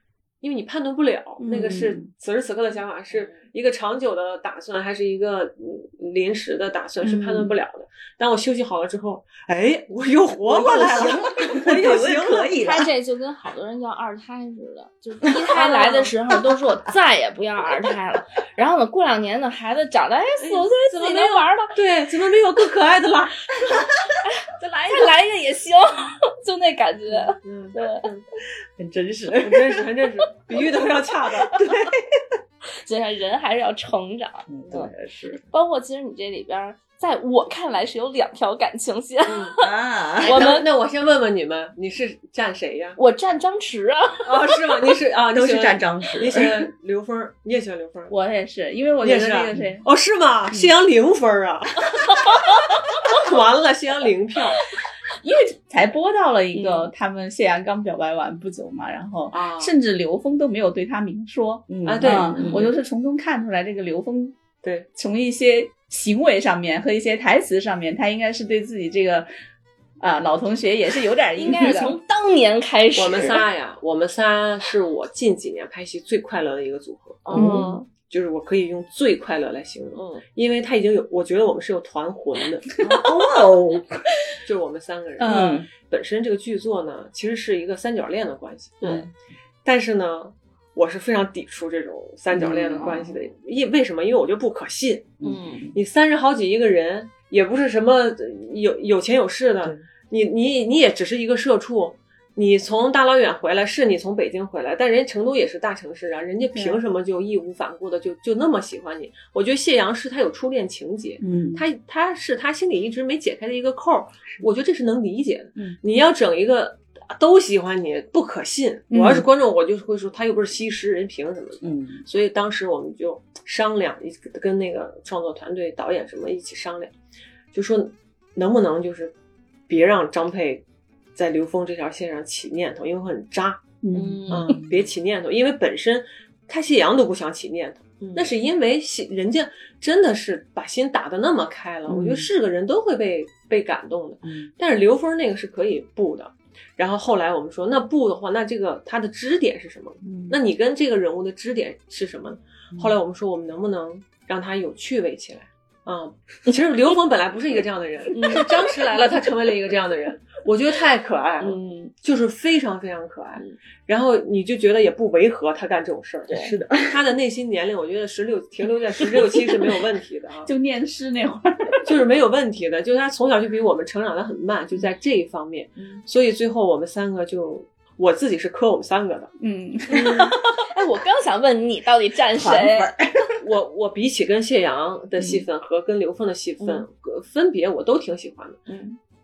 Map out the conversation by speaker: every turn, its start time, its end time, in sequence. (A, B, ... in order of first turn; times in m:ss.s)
0:00.4-0:12.5 A
0:01.4-0:01.9 B
0:01.6-0:02.1 C
0:07.0-0:07.5 B
0:10.4-0:12.9 C
0:12.5-0:21.7 D
0:15.5-0:16.1 A
0:20.4-0:23.4 A
0:24.2-0:28.1 D
0:27.1-0:28.2 A
0:28.8-0:29.8 C
0:29.4-0:31.6 A
0:31.5-0:32.2 C
0:32.8-0:40.6 D
0:34.5-0:35.4 C
0:39.2-0:39.5 A
0:39.6-0:40.5 C
0:40.2-0:43.0 A
0:43.0-0:44.4 D
0:44.2-0:48.1 A
0:45.3-0:46.5 C
0:48.1-0:49.8 B
0:49.0-0:52.2 A
0:52.1-0:52.6 D
0:53.0-0:54.6 A
0:55.2-1:04.4 B
0:56.5-0:56.9 D
0:59.3-0:59.7 A
1:01.7-1:02.6 C
1:01.8-1:02.7 A
1:04.6-1:04.9 A
1:04.9-1:09.3 B
1:10.0-1:12.0 B
1:11.4-1:13.4 D
1:12.9-1:22.6 A
1:17.2-1:17.8 D
1:17.3-1:17.8 B
1:17.4-1:17.7 C
1:19.9-1:20.2 D
1:22.8-1:24.0 C
1:24.4-1:29.1 A
1:25.2-1:25.6 B
1:25.2-1:25.7 C
1:28.8-1:29.1 C
1:29.6-1:35.1 A
1:32.3-1:33.2 C
1:35.2-1:35.8 C
1:35.2-1:35.6 D
1:35.7-2:06.9 A
1:46.5-1:46.8 B
1:51.2-1:51.6 B
1:58.9-1:59.2 B
2:01.6-2:02.0 C
2:07.5-2:09.1 A
2:09.7-2:10.6 A
2:11.1-2:13.6 A
2:13.8-2:14.3 B
2:13.9-2:14.6 D
2:14.3-2:46.3 A
2:14.4-2:14.9 C
2:18.0-2:18.3 D
2:21.9-2:22.3 C
2:24.2-2:24.5 C
2:30.0-2:30.4 C
2:38.1-2:38.6 D
2:41.4-2:41.9 D
2:46.3-2:47.0 C
2:46.9-2:50.5 A
2:50.4-2:51.9 B
2:51.8-2:59.3 A
2:59.4-3:00.6 B
2:59.9-3:02.9 D
3:02.3-3:03.3 C
3:03.4-3:08.6 A
3:06.6-3:06.8 D
3:08.7-3:09.0 D